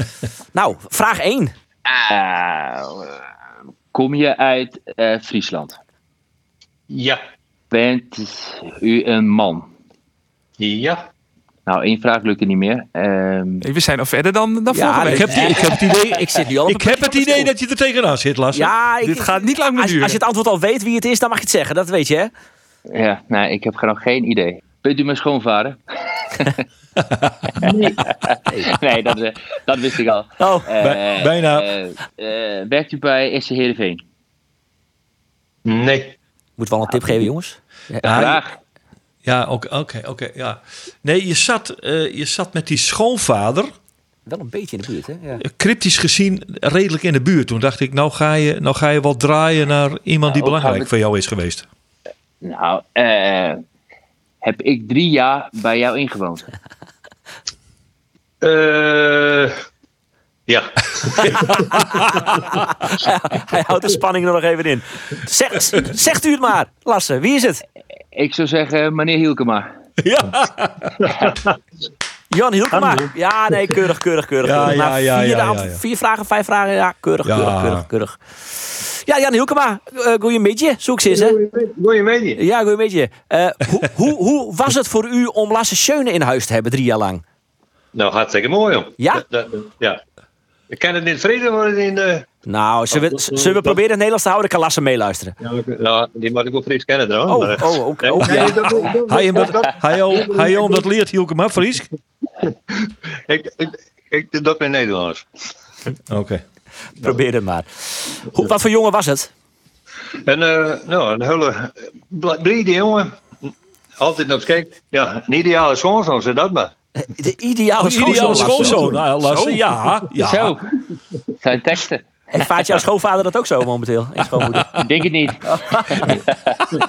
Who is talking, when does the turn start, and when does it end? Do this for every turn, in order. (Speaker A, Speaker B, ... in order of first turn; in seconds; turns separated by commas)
Speaker A: 0.5-1.5, Speaker B: 1.9-3.2, Speaker B: 3.9-5.8, Speaker C: 6.9-7.2, Speaker B: 7.7-9.7, Speaker C: 10.6-11.0, Speaker B: 11.7-13.6, Speaker D: 13.6-15.9, Speaker A: 14.7-17.5, Speaker E: 15.1-18.7, Speaker A: 18.5-22.3, Speaker D: 19.0-20.2, Speaker B: 22.9-26.6, Speaker E: 27.2-27.5, Speaker B: 27.6-34.0, Speaker A: 28.5-28.8, Speaker A: 30.4-30.7, Speaker E: 30.8-31.7, Speaker C: 35.6-36.1, Speaker A: 36.6-38.2, Speaker E: 38.0-38.4, Speaker B: 38.0-38.6, Speaker E: 39.2-43.7, Speaker A: 44.2-45.4, Speaker E: 45.4-51.6, Speaker B: 50.2-50.9, Speaker B: 52.4-53.6, Speaker B: 54.4-56.5, Speaker C: 58.4-59.5, Speaker C: 60.5-62.5, Speaker A: 61.7-67.6, Speaker B: 68.1-69.7, Speaker E: 70.0-71.1, Speaker A: 72.3-81.4, Speaker E: 74.4-75.8, Speaker E: 77.2-77.8, Speaker C: 81.1-82.4, Speaker A: 82.4-87.2, Speaker C: 87.9-90.0, Speaker C: 90.7-92.3, Speaker A: 92.5-95.3, Speaker C: 92.9-93.8, Speaker C: 95.4-100.8, Speaker A: 97.3-98.7, Speaker E: 98.2-101.9, Speaker C: 103.3-105.2, Speaker E: 106.1-106.4, Speaker A: 107.0-109.3, Speaker C: 110.2-113.2, Speaker C: 114.0-116.7, Speaker A: 117.0-119.0, Speaker E: 117.8-120.6, Speaker B: 120.2-120.6, Speaker B: 121.4-122.0, Speaker A: 122.3-124.7, Speaker B: 124.8-126.6